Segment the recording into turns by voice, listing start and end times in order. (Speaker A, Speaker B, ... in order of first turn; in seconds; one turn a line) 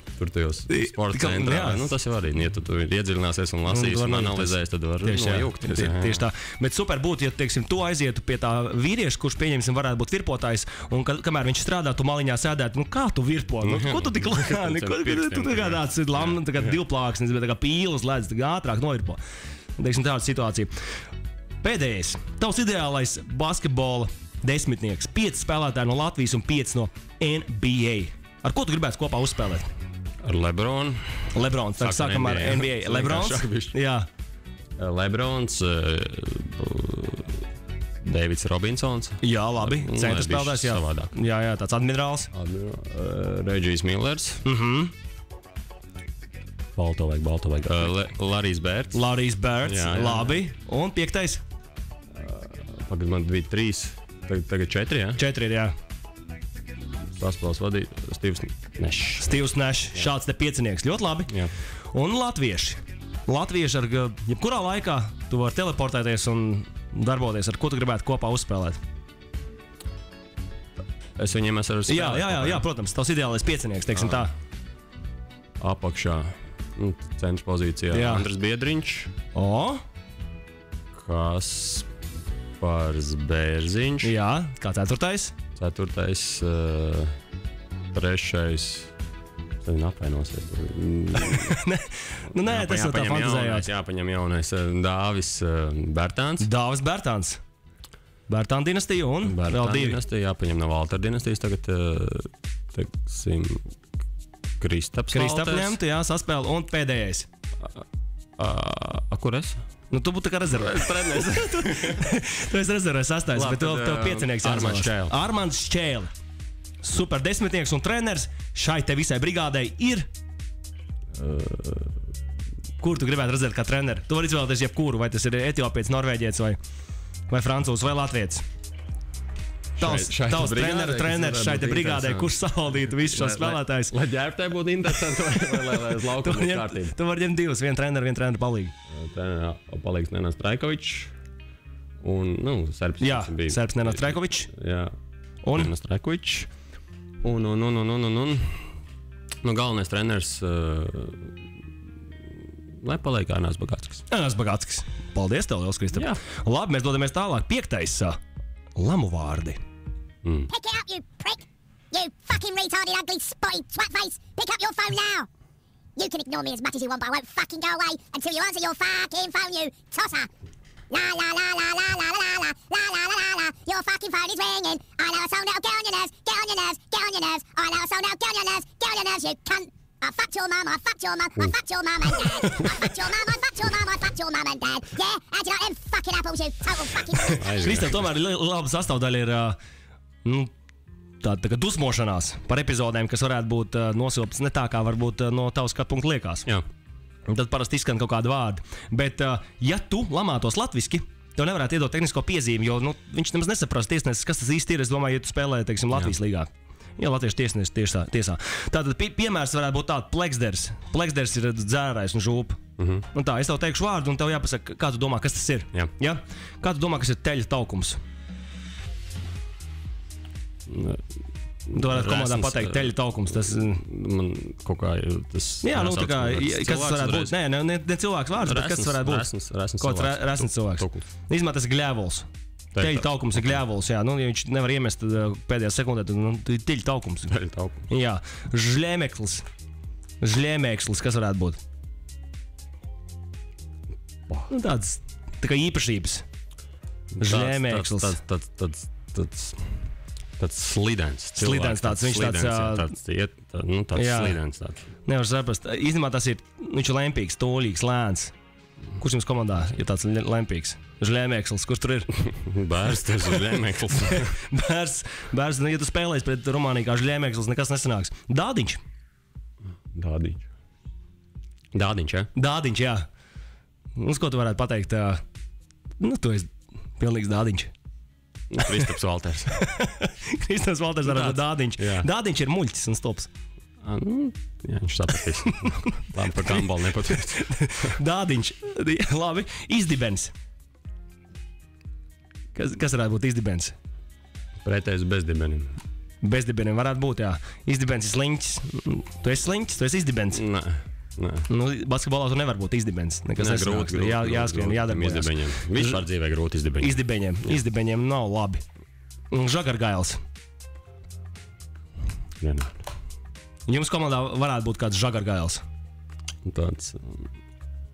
Speaker A: 0.1-6.2
Speaker B: 0.7-1.9
Speaker B: 3.7-19.2
Speaker A: 13.6-16.8
Speaker B: 19.8-20.7
Speaker B: 21.6-29.7
Speaker A: 30.2-33.8
Speaker B: 31.3-34.1
Speaker A: 34.8-37.4
Speaker A: 38.0-41.1
Speaker B: 39.2-42.3
Speaker A: 42.3-44.4
Speaker B: 44.4-44.9
Speaker A: 46.8-49.0
Speaker B: 48.9-51.4
Speaker A: 49.6-50.4
Speaker A: 52.1-55.2
Speaker B: 55.2-55.7
Speaker A: 57.1-59.4
Speaker B: 59.2-61.3
Speaker B: 61.9-68.8
Speaker A: 71.2-72.7
Speaker B: 71.9-74.3
Speaker A: 73.9-74.3
Speaker A: 75.6-79.1
Speaker B: 77.9-78.3
Speaker B: 79.3-79.8
Speaker A: 80.9-81.9
Speaker A: 82.6-84.1
Speaker B: 84.0-85.3
Speaker A: 85.5-87.2
Speaker A: 87.9-88.9
Speaker A: 89.6-91.6
Speaker B: 91.2-93.7
Speaker A: 92.3-96.5
Speaker B: 96.4-97.4
Speaker B: 98.3-100.0
Speaker A: 99.2-103.7
Speaker A: 104.6-105.8
Speaker B: 105.1-107.3
Speaker A: 108.4-109.6
Speaker B: 109.9-116.1
Speaker A: 110.5-112.1
Speaker A: 113.3-115.2
Speaker B: 116.8-120.1
Speaker A: 121.1-121.9
Speaker B: 122.8-126.6
Speaker B: 127.3-128.4
Speaker A: 129.8-136.9
Speaker B: 129.8-133.9
Speaker B: 136.2-138.7
Speaker A: 138.9-141.1
Speaker A: 142.0-144.9
Speaker B: 143.0-144.5
Speaker B: 145.4-145.7
Speaker A: 145.5-146.5
Speaker A: 147.2-148.7
Speaker A: 149.4-151.3
Speaker A: 152.8-154.0
Speaker B: 154.1-158.2
Speaker A: 155.9-156.2
Speaker B: 158.8-159.6
Speaker A: 160.2-160.5
Speaker C: 160.5-165.3
Speaker C: 166.0-170.3
Speaker C: 170.9-187.4
Speaker A: 187.3-188.1
Speaker B: 187.3-189.6
Speaker B: 190.2-190.5
Speaker B: 191.2-196.4
Speaker B: 197.3-212.6
Speaker A: 212.8-213.1
Speaker B: 213.1-218.0
Speaker A: 220.7-221.0
Speaker A: 221.7-227.3
Speaker B: 221.7-223.8
Speaker B: 225.6-237.3
Speaker A: 228.4-231.1
Speaker A: 232.7-233.6
Speaker A: 237.3-237.9
Speaker B: 237.9-239.4
Speaker B: 240.2-241.6
Speaker B: 244.5-246.2
Speaker A: 247.1-249.7
Speaker B: 247.2-248.2
Speaker A: 250.4-254.9
Speaker B: 251.4-252.9
Speaker B: 253.9-254.4
Speaker B: 255.1-258.3
Speaker B: 259.0-262.1
Speaker A: 262.2-264.4
Speaker B: 264.0-268.8
Speaker A: 269.9-270.5
Speaker A: 271.7-272.3
Speaker B: 272.3-273.1
Speaker B: 274.0-275.2
Speaker B: 276.0-277.7
Speaker A: 278.5-279.5
Speaker B: 279.5-283.3
Speaker A: 281.0-282.1
Speaker A: 283.8-288.0
Speaker B: 285.4-290.3
Speaker B: 292.5-293.7
Speaker A: 294.6-295.8
Speaker B: 296.2-300.4
Speaker A: 300.3-301.5
Speaker B: 301.5-306.0
Speaker A: 303.4-307.6
Speaker B: 306.8-308.6
Speaker B: 309.3-310.2
Speaker A: 312.4-312.8
Speaker B: 313.7-315.6
Speaker A: 316.4-317.3